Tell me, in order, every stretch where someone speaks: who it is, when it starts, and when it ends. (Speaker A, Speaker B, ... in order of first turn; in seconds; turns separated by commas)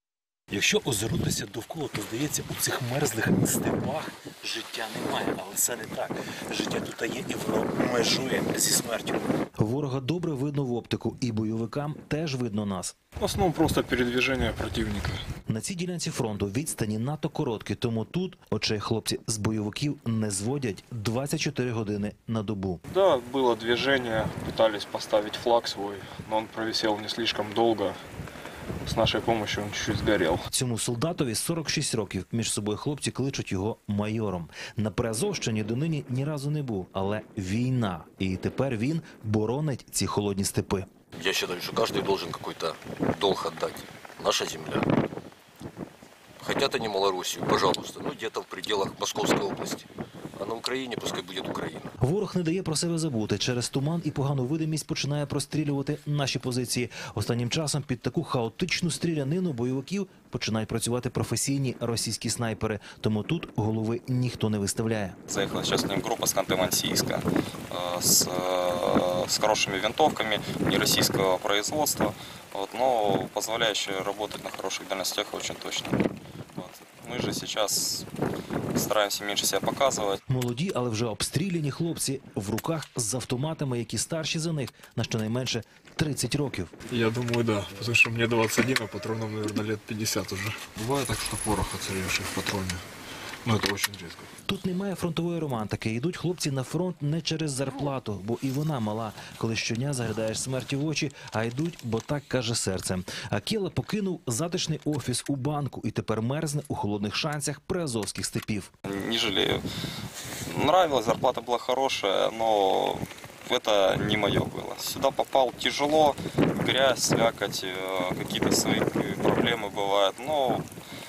Speaker A: 0.5-12.9, Speaker B: 13.2-15.2, Speaker A: 15.5-22.8, Speaker B: 22.9-28.0, Speaker B: 28.9-30.4, Speaker A: 30.5-40.9, Speaker C: 41.1-44.9, Speaker C: 46.4-51.9, Speaker A: 52.0-65.2, Speaker D: 65.3-78.1, Speaker D: 78.7-80.2, Speaker A: 80.3-86.7, Speaker B: 86.9-92.8, Speaker B: 93.4-94.3, Speaker A: 94.5-108.7, Speaker D: 108.9-109.6, Speaker D: 110.5-120.6